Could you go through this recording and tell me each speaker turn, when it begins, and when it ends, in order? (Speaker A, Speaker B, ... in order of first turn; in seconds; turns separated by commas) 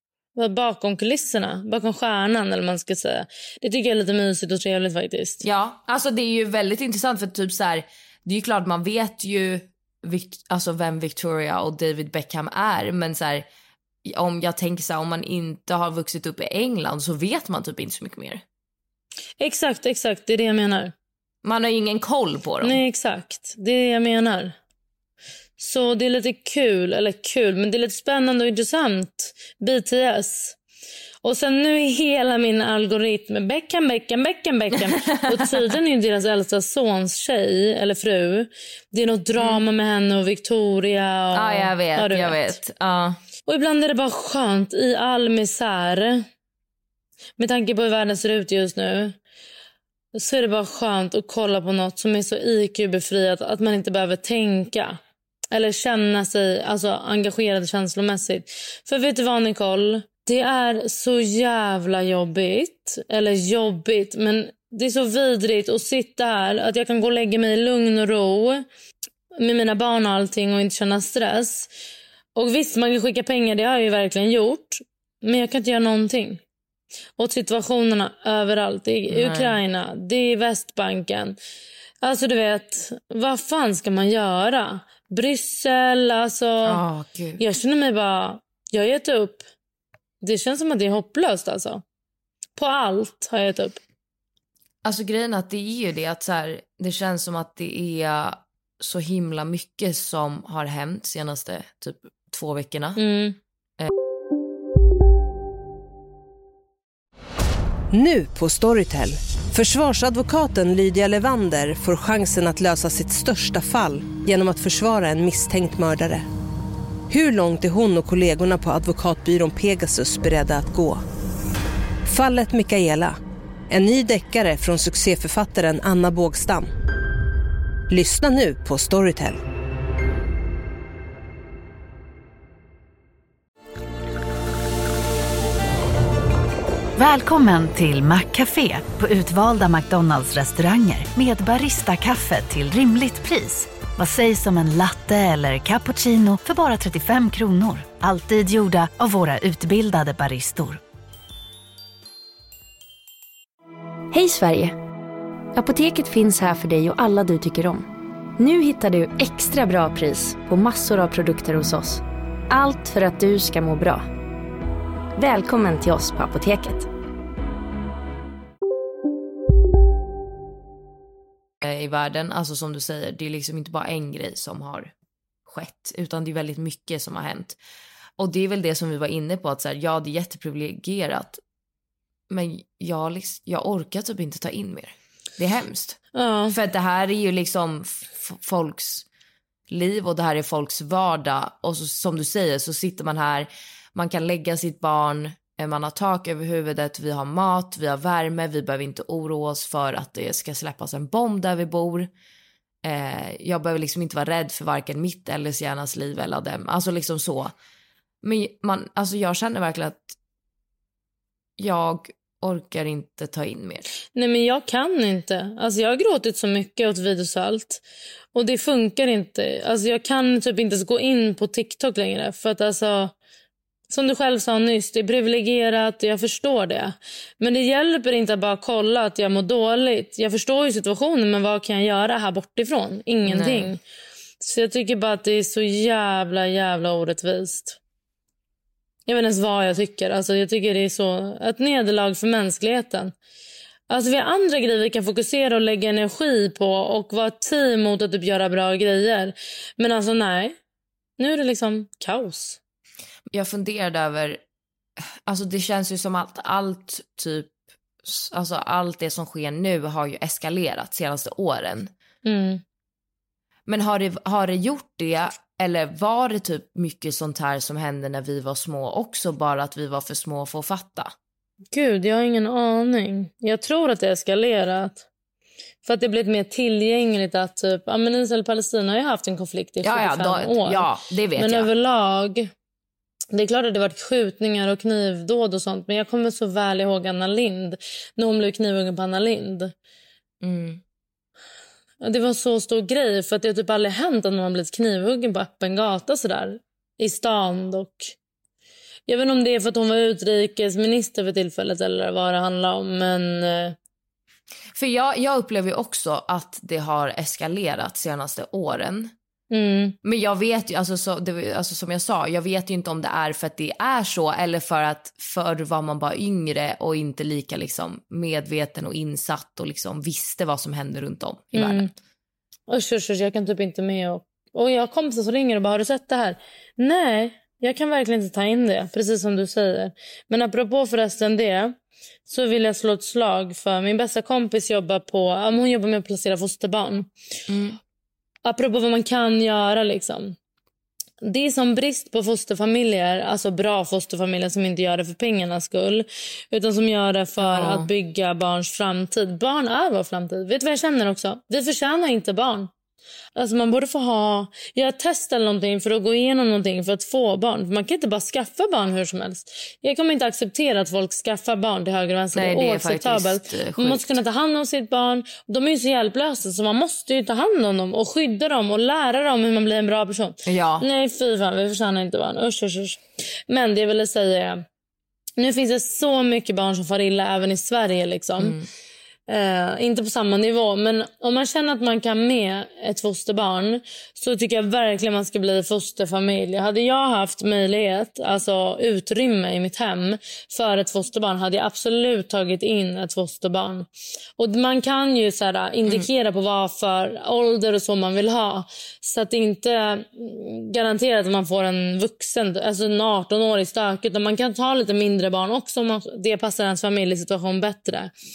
Speaker A: 0.3-5.4, Speaker B: 5.4-13.4, Speaker B: 14.0-18.4, Speaker A: 19.4-20.9, Speaker B: 21.4-22.8, Speaker A: 22.6-24.5, Speaker A: 25.6-30.6, Speaker A: 31.2-42.6, Speaker B: 34.7-35.7, Speaker B: 39.4-39.6, Speaker B: 41.3-43.2, Speaker A: 43.5-46.2, Speaker A: 47.4-49.2, Speaker A: 50.1-55.0, Speaker A: 55.5-68.6, Speaker A: 69.4-71.7, Speaker A: 72.3-76.4, Speaker A: 77.2-81.4, Speaker B: 79.1-79.6, Speaker A: 82.0-86.8, Speaker B: 86.6-87.4, Speaker A: 87.4-89.4, Speaker A: 90.2-91.8, Speaker A: 92.5-93.8, Speaker B: 94.8-103.0, Speaker A: 103.0-103.4, Speaker C: 107.9-116.3, Speaker C: 117.1-121.0, Speaker C: 122.0-123.2, Speaker C: 123.7-126.7, Speaker C: 127.9-129.4, Speaker D: 136.9-150.8, Speaker E: 154.1-154.7, Speaker E: 155.6-157.8, Speaker E: 158.4-164.0, Speaker E: 165.2-166.9, Speaker B: 171.6-174.9, Speaker B: 175.5-177.6, Speaker B: 178.2-181.4, Speaker B: 182.3-189.1, Speaker A: 186.1-186.5, Speaker B: 189.7-202.1, Speaker B: 202.8-207.5, Speaker B: 208.2-210.1, Speaker B: 211.6-213.9, Speaker A: 214.1-217.8, Speaker A: 218.3-223.1, Speaker A: 223.9-233.8, Speaker B: 233.2-233.8, Speaker A: 234.4-237.8, Speaker A: 239.1-243.1, Speaker A: 243.9-250.6, Speaker A: 251.2-252.6, Speaker B: 253.3-254.4, Speaker B: 255.2-257.5, Speaker B: 258.0-261.9, Speaker A: 262.2-262.6, Speaker B: 263.7-271.1, Speaker A: 271.7-275.0, Speaker A: 275.8-282.5, Speaker B: 279.8-281.7, Speaker A: 283.3-289.7, Speaker B: 290.4-290.8, Speaker A: 292.0-298.1, Speaker A: 299.1-303.8, Speaker B: 304.7-309.1, Speaker A: 309.5-309.9, Speaker B: 310.0-321.9, Speaker A: 321.5-321.9, Speaker A: 322.7-331.8, Speaker A: 332.3-337.1, Speaker B: 337.5-337.8, Speaker A: 338.4-340.4, Speaker A: 341.2-352.7, Speaker B: 347.4-347.9, Speaker A: 353.3-374.6, Speaker B: 362.3-364.2, Speaker B: 370.4-370.9, Speaker A: 375.4-378.6, Speaker B: 378.4-378.7, Speaker A: 379.3-408.1